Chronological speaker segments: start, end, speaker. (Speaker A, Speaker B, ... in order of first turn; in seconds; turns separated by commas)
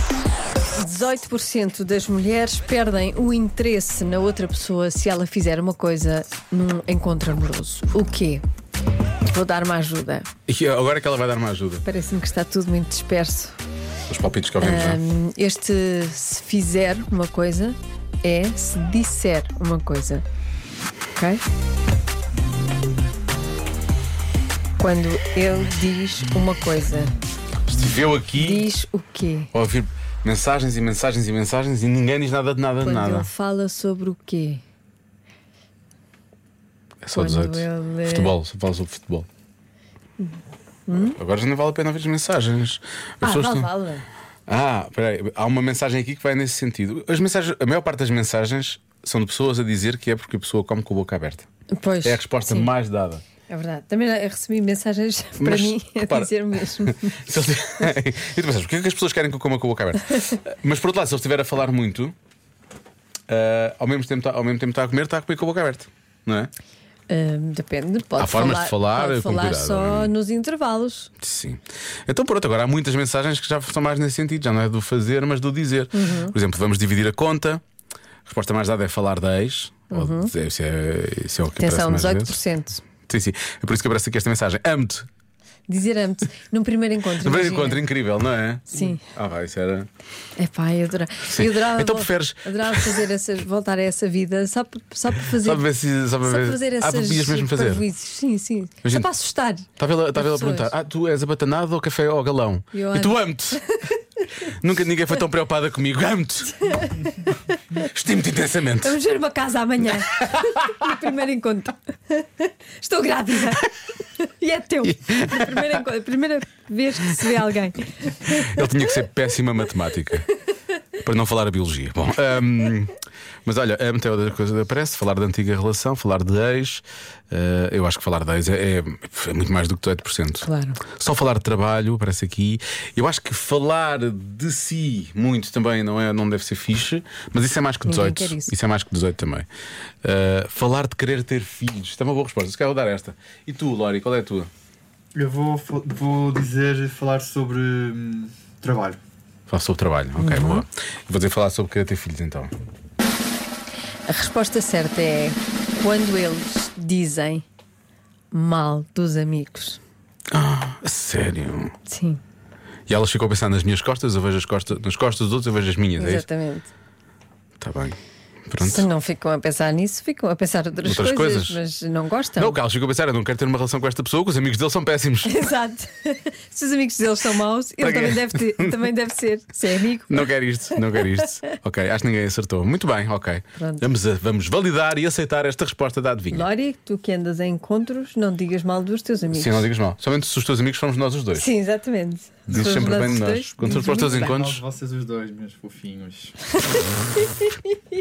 Speaker A: 0.8-8.4, Speaker A: 9.3-10.3, Speaker B: 10.5-11.8, Speaker A: 11.8-13.6, Speaker B: 14.1-15.0, Speaker A: 14.6-20.2, Speaker A: 21.1-21.4, Speaker A: 24.8-27.1, Speaker B: 27.6-28.6, Speaker A: 28.3-29.5, Speaker B: 29.5-33.3, Speaker A: 32.8-34.6, Speaker B: 37.0-39.3, Speaker A: 37.1-38.3, Speaker A: 40.2-41.2, Speaker B: 41.0-43.7, Speaker A: 43.2-44.1, Speaker B: 44.5-51.5, Speaker A: 51.8-52.7, Speaker B: 52.0-53.2, Speaker A: 53.5-57.9, Speaker B: 55.4-62.1, Speaker B: 63.3-66.5, Speaker A: 67.1-71.1, Speaker B: 68.2-70.1, Speaker B: 71.2-77.6, Speaker A: 75.9-76.3, Speaker B: 78.2-82.4, Speaker A: 79.9-80.3, Speaker A: 81.6-82.8, Speaker B: 83.0-85.1, Speaker A: 85.7-87.8, Speaker B: 87.2-89.9, Speaker A: 88.7-89.0, Speaker A: 90.4-95.7, Speaker B: 91.3-93.0, Speaker B: 95.2-97.8, Speaker A: 96.2-100.7, Speaker B: 99.8-103.6, Speaker A: 102.7-104.5, Speaker B: 104.4-106.8, Speaker A: 106.6-107.9, Speaker B: 107.8-109.0, Speaker A: 108.8-119.0, Speaker B: 110.2-110.9, Speaker B: 114.9-115.5, Speaker B: 118.2-120.3, Speaker B: 121.0-139.5, Speaker A: 130.4-130.8, Speaker A: 137.8-138.5, Speaker B: 140.0-144.5, Speaker C: 145.1-149.0, Speaker B: 149.5-152.5, Speaker A: 150.2-150.6, Speaker A: 154.1-157.4, Speaker A: 158.3-159.8, Speaker B: 160.3-161.7, Speaker A: 161.9-162.2, Speaker B: 162.9-166.2, Speaker A: 166.0-166.7, Speaker B: 167.6-168.0, Speaker B: 168.5-168.9, Speaker A: 168.6-172.6, Speaker B: 170.8-171.6, Speaker B: 172.4-175.4, Speaker A: 175.2-181.5, Speaker B: 177.8-178.9, Speaker B: 180.1-186.4, Speaker A: 183.6-183.9, Speaker A: 186.3-189.7, Speaker B: 189.3-191.5, Speaker A: 191.3-194.3, Speaker B: 192.5-194.6, Speaker C: 192.5-192.8, Speaker C: 194.1-196.3, Speaker A: 196.6-197.7